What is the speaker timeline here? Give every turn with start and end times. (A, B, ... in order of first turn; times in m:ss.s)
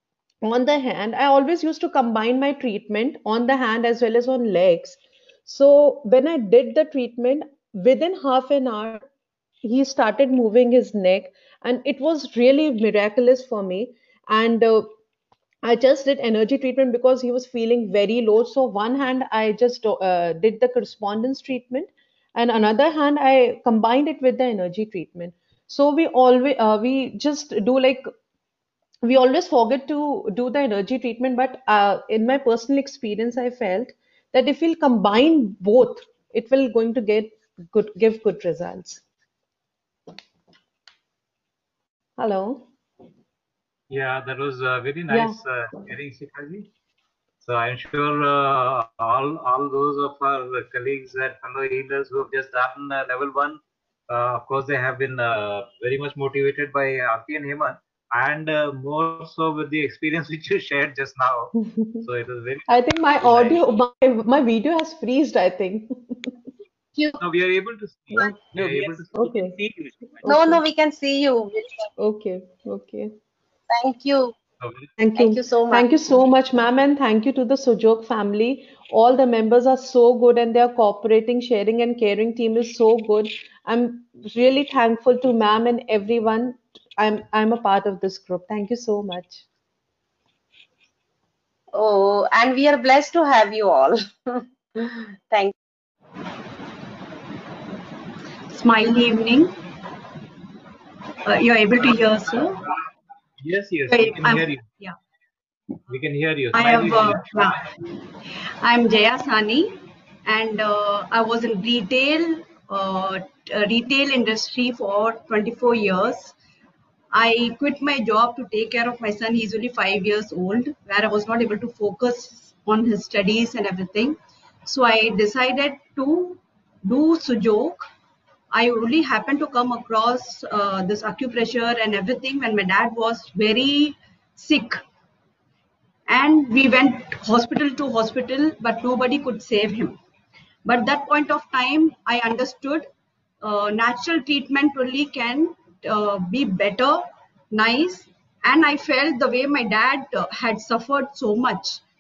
0:00.4-0:09.1 A
0:09.6-0:14.9 A
0:15.6-0:28.1 A
0:29.0-0:39.0 A
0:42.2-0:42.7 A
0:43.9-0:46.7 B
0:45.1-0:45.4 A
0:47.4-1:03.6 B
1:01.6-1:02.1 A
1:02.7-1:06.4 A
1:07.2-1:10.2 B
1:09.2-1:09.6 A
1:10.2-1:10.6 A
1:10.3-1:11.9 C
1:12.0-1:13.1 A
1:13.7-1:14.4 C
1:14.6-1:14.9 B
1:15.0-1:29.4 A
1:15.2-1:15.9 C
1:31.7-1:35.5 C
1:38.5-1:39.5 D
1:41.2-1:42.6 D
1:43.4-1:44.6 B
1:43.9-1:45.0 D
1:45.9-1:47.5 B
1:46.5-1:47.7 D
1:48.6-1:49.8 D
1:50.3-1:56.3 D
1:57.1-2:07.9 D
2:08.5-2:14.8 D
2:16.1-2:20.0 D
2:20.6-2:22.9 D
2:23.4-2:31.8 D